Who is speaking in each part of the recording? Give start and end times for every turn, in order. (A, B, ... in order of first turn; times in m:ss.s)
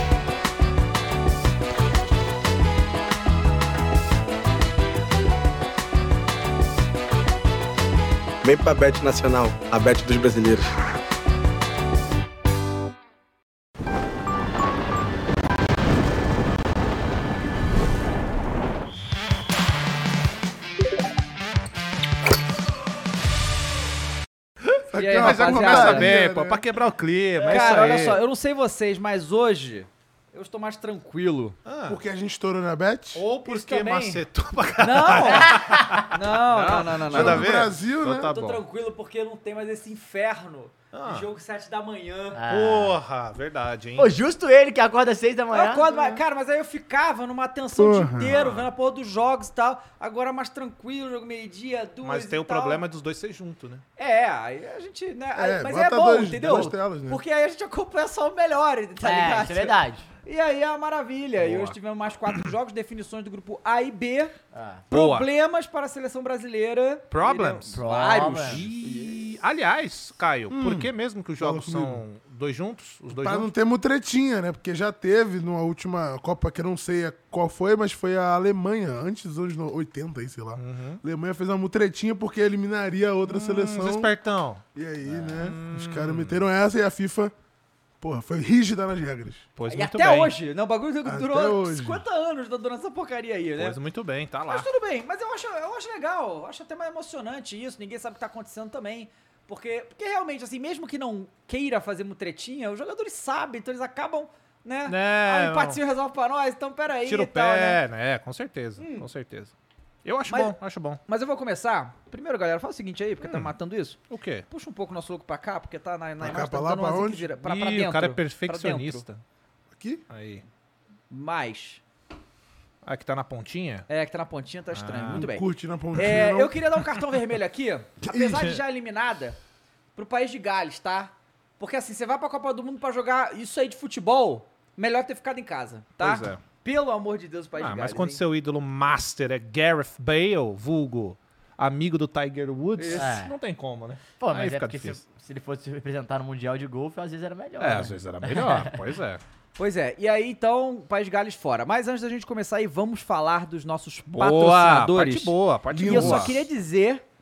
0:08.4-0:10.6 A
0:24.9-0:26.6 B
0:24.9-0:26.1 C
0:25.1-0:28.2 D
0:27.5-0:31.6 C
0:31.6-0:32.0 D
0:31.9-0:33.2 B
0:33.1-0:38.6 D
0:33.5-0:34.2 C
0:34.8-0:35.6 C
0:35.3-0:36.1 E
0:36.1-0:37.5 C
0:37.1-0:38.3 B
0:38.2-0:42.4 C
0:40.9-0:41.3 D
0:42.4-0:43.0 E
0:42.5-0:44.2 D
0:44.0-0:45.9 E
0:45.5-0:52.8 C
0:47.8-0:48.4 B
0:48.3-0:48.7 D
0:52.0-0:53.8 D
0:54.0-1:04.4 C
0:55.4-0:57.2 B
0:59.0-1:00.1 E
1:01.4-1:01.8 D
1:04.5-1:04.8 E
1:04.9-1:08.8 C
1:04.9-1:05.3 D
1:07.1-1:07.8 D
1:07.7-1:08.6 E
1:08.4-1:13.5 D
1:10.5-1:12.0 B
1:13.1-1:24.1 B
1:20.6-1:21.0 D
1:23.3-1:24.6 D
1:24.8-1:27.3 B
1:25.1-1:25.4 E
1:25.4-1:26.4 D
1:28.0-1:29.5 B
1:29.6-1:30.3 D
1:29.7-1:33.8 C
1:31.0-1:32.0 B
1:33.6-1:34.7 D
1:34.5-1:47.8 C
1:44.9-1:45.8 D
1:47.1-1:49.5 D
1:48.8-1:49.1 C
1:50.0-1:51.0 D
1:50.3-1:50.6 C
1:51.1-1:54.0 C
1:53.2-1:53.5 D
1:54.1-1:54.5 D
1:54.5-1:59.0 C
1:56.2-1:57.3 B
1:57.4-1:59.2 D
1:59.7-2:00.0 B
2:00.1-2:00.4 D
2:01.1-2:01.8 C
2:02.8-2:03.9 D
2:03.9-2:09.4 C
2:04.7-2:05.3 D
2:05.2-2:06.5 B
2:08.0-2:08.5 B
2:10.0-2:18.2 C
2:16.0-2:16.4 D
2:17.6-2:25.0 D
2:22.8-2:23.0 C
2:23.0-2:23.3 E
2:24.2-2:28.8 E
2:27.6-2:29.2 D
2:29.6-2:35.3 C
2:34.1-2:36.4 D
2:35.7-2:36.4 B
2:35.8-2:37.0 C